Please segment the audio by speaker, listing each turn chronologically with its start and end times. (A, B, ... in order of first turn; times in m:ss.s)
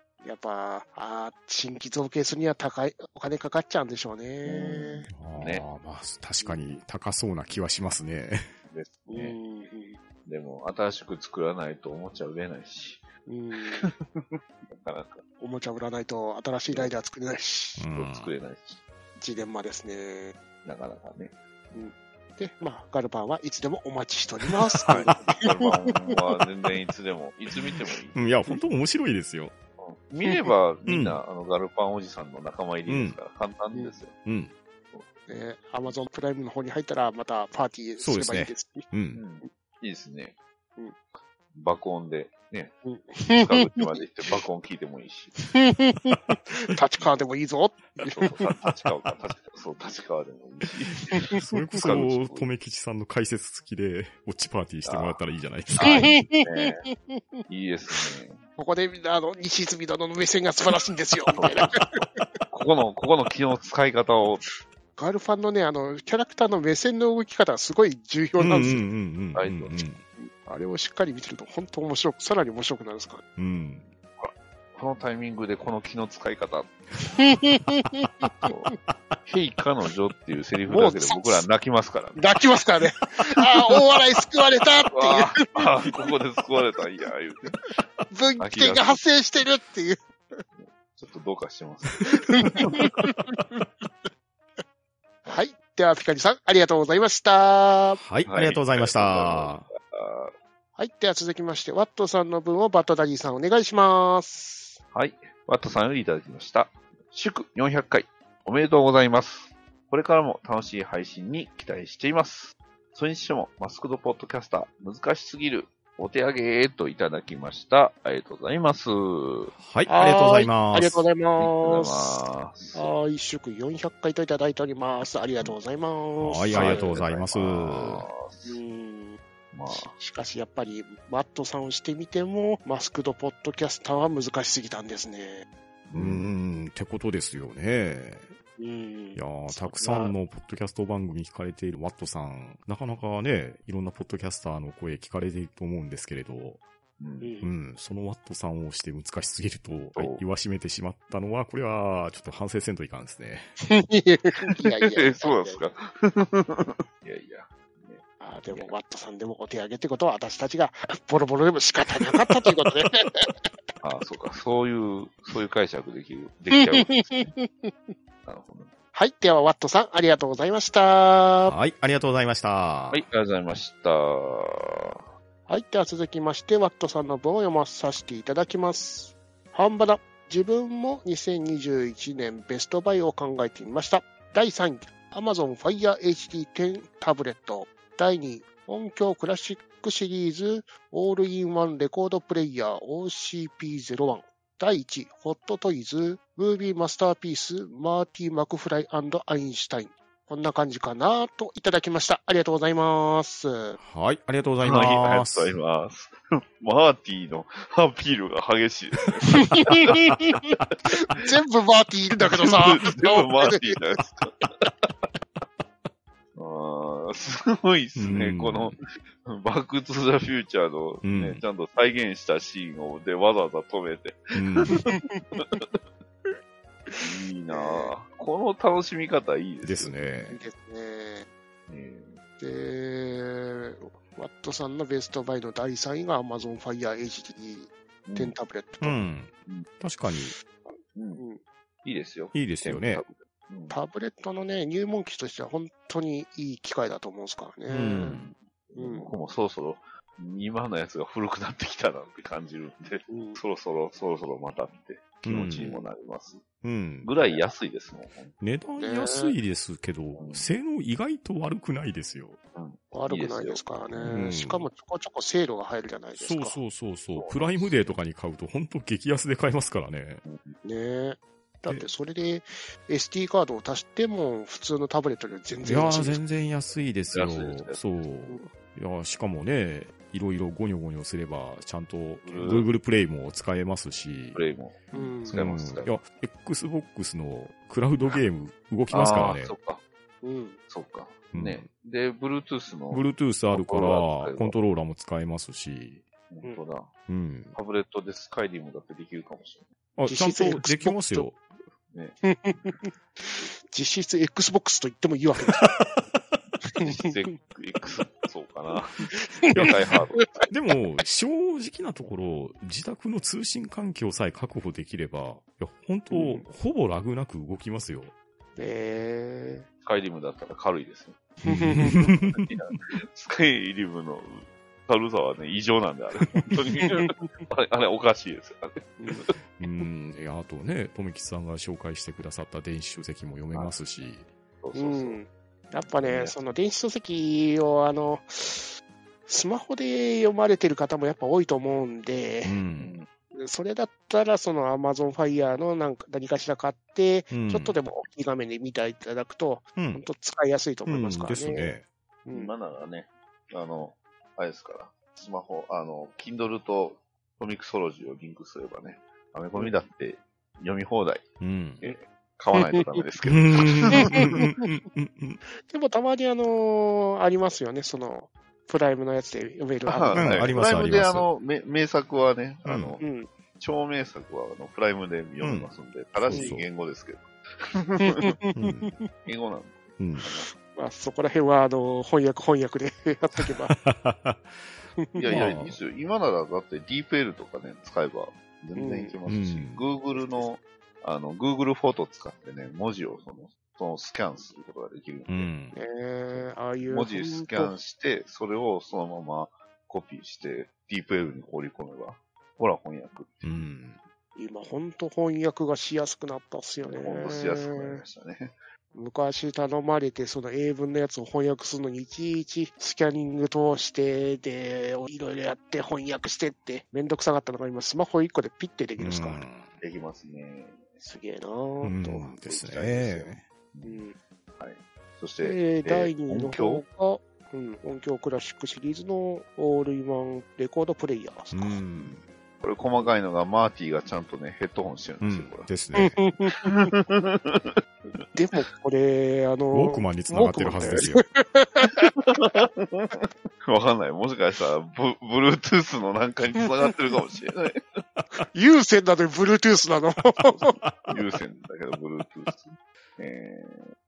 0:00.2-0:05.1 A
0:04.4-0:05.6 B
0:05.1-0:08.5 C
0:08.7-0:09.4 B
0:09.1-0:10.0 A
0:10.3-0:13.1 B
0:13.3-0:13.9 A
0:13.8-0:15.2 B
0:15.4-0:17.9 A
0:16.7-0:16.9 B
0:17.8-0:18.3 C
0:17.9-0:18.8 B
0:19.2-0:20.4 A
0:20.6-0:21.4 B
0:21.7-0:26.0 A
0:24.9-0:28.3 B
0:28.2-0:29.5 C
0:29.8-0:34.2 B
0:30.9-0:31.2 C
0:32.9-0:33.2 C
0:34.2-0:34.5 C
0:35.3-0:38.9 A
0:38.0-0:39.2 C
0:39.1-0:40.4 B
0:41.5-0:42.8 B
0:42.8-0:44.0 A
0:43.3-0:45.4 B
0:45.4-0:48.4 A
0:48.0-0:52.5 B
0:51.3-0:56.2 C
0:54.8-0:56.8 B
0:55.8-0:57.4 A
0:57.5-0:58.4 B
0:58.0-1:02.4 A
1:01.3-1:01.7 B
1:02.5-1:04.4 B
1:05.0-1:08.8 A
1:08.4-1:10.0 C
1:09.4-1:09.9 B
1:10.2-1:13.2 A
1:13.4-1:13.9 C
1:14.2-1:16.8 B
1:17.1-1:18.3 A
1:18.0-1:18.3 C
1:18.4-1:18.7 B
1:19.3-1:22.3 B
1:20.7-1:21.4 A
1:22.2-1:25.9 A
1:23.5-1:23.8 B
1:24.9-1:27.8 B
1:28.1-1:30.4 A
1:28.4-1:29.0 B
1:30.6-1:33.0 B
1:32.1-1:33.6 A
1:35.2-1:38.0 A
1:38.0-1:39.7 C
1:38.2-1:40.4 B
1:40.8-1:44.8 A
1:44.9-1:59.5 B
1:59.6-2:01.1 C
1:59.9-2:02.2 A
2:01.4-2:02.9 B
2:02.7-2:07.0 A
2:06.2-2:08.1 C
2:06.5-2:08.6 B
2:08.5-2:15.5 A
2:09.5-2:09.9 B
2:15.9-2:16.3 B
2:15.9-2:18.3 C
2:18.6-2:20.1 A
2:19.2-2:26.6 C
2:27.0-2:27.3 B
2:27.2-2:27.5 A
2:27.4-2:33.5 C
2:30.0-2:30.2 B
2:33.6-2:35.6 A
2:34.5-2:38.7 B
2:38.2-2:43.5 A
2:43.8-2:47.3 B
2:46.5-2:47.9 A
2:48.2-2:48.7 B
2:48.9-2:51.6 A
2:51.5-2:53.0 C
2:52.9-2:55.0 B
2:55.5-3:23.8 A
3:23.8-3:25.5 C
3:24.6-3:30.6 B
3:29.4-3:33.8 A
3:32.2-3:34.9 B
3:36.4-3:45.6 B
3:38.0-3:38.8 C
3:41.0-3:41.4 C
3:44.3-3:44.8 C
3:44.9-3:45.2 A
3:46.9-3:47.9 A
3:47.0-3:50.0 B
3:49.6-3:50.4 C
3:50.3-3:51.3 A
3:51.7-3:52.2 B
3:52.4-3:59.0 A
3:58.1-3:58.4 B
3:58.8-4:00.4 C
4:00.7-4:01.4 A
4:01.0-4:01.2 B
4:01.8-4:03.8 B
4:02.3-4:03.0 C
4:03.7-4:08.2 A
4:07.7-4:08.3 C
4:08.0-4:16.4 B
4:08.8-4:09.1 A
4:13.1-4:13.4 A
4:15.2-4:15.8 C
4:16.6-4:17.1 C
4:17.0-4:18.4 B
4:18.4-4:22.4 C
4:18.8-4:19.4 A
4:20.2-4:20.5 B
4:22.5-4:24.3 B
4:22.9-4:26.6 A
4:24.0-4:24.7 C
4:26.2-4:30.2 C
4:27.2-4:28.0 B
4:30.2-4:30.6 B
4:30.6-4:36.2 A
4:35.7-4:44.4 C
4:37.1-4:38.0 B
4:42.2-4:42.7 B
4:44.3-4:46.0 B
4:44.9-4:45.4 A
4:45.3-4:49.5 C
4:48.9-4:49.8 B
4:50.2-4:50.6 A
4:50.7-4:54.6 B
4:51.3-4:51.7 C
4:52.9-4:56.0 C
4:56.3-4:56.9 B
4:57.1-4:57.6 C
4:57.5-4:59.7 B
5:00.0-5:01.4 C
5:00.1-5:01.3 A
5:01.9-5:02.2 B
5:02.2-5:05.7 A
5:05.6-5:06.2 C
5:06.7-5:07.4 A
5:06.8-5:10.5 B
5:09.1-5:10.3 A
5:09.5-5:09.8 C
5:10.5-5:18.1 C
5:16.1-5:16.4 A
5:18.6-5:19.7 A
5:19.8-5:21.2 B
5:21.4-5:22.0 A
5:21.4-5:22.8 C
5:21.9-5:29.3 B
5:26.8-5:27.4 A
5:29.0-5:29.2 A
5:29.6-5:34.3 C
5:34.6-5:35.2 B
5:34.8-5:38.7 A
5:35.8-5:36.4 B
5:39.3-5:42.6 A
5:42.4-5:43.0 C
5:42.8-5:43.1 B
5:43.3-5:51.7 A
5:47.3-5:47.8 C
5:49.8-5:50.0 C
5:50.9-5:51.9 C
5:52.3-5:52.5 A
5:52.3-6:01.3 B
6:01.4-6:01.9 C
6:01.8-6:04.4 B
6:02.6-6:03.0 A
6:03.2-6:05.4 C
6:03.9-6:04.7 A
6:05.7-6:10.5 A
6:09.9-6:13.1 B
6:10.1-6:11.3 C
6:12.6-6:13.0 C
6:13.0-6:13.3 A
6:13.6-6:18.3 B
6:15.4-6:16.7 C
6:18.0-6:19.1 A
6:18.6-6:19.0 C
6:19.2-6:20.5 B
6:20.0-6:20.2 C
6:20.2-6:23.8 A
6:23.4-6:24.6 C
6:25.0-6:25.5 A
6:25.2-6:35.5 B
6:25.2-6:25.8 C
6:28.8-6:29.2 A
6:29.3-6:29.9 C
6:30.2-6:30.4 A
6:35.3-6:35.8 C
6:35.7-6:37.7 A
6:36.4-6:43.6 B
6:43.4-6:44.0 C
6:44.4-6:48.0 A
6:46.9-6:48.6 B
6:48.9-6:59.4 A
6:59.0-6:59.7 C
6:59.8-7:00.9 B
7:01.0-7:02.4 A
7:01.8-7:03.4 C
7:02.4-7:04.0 B
7:03.8-7:04.2 A
7:04.6-7:06.8 B
7:05.4-7:11.8 A
7:11.5-7:12.3 C
7:12.6-7:15.7 B
7:15.2-7:16.2 C
7:16.0-7:16.9 A
7:16.6-7:17.8 B
7:18.3-7:22.3 A
7:19.7-7:21.2 C
7:22.2-7:27.8 B
7:28.5-7:30.8 A
7:30.6-7:31.1 C
7:31.1-7:33.8 B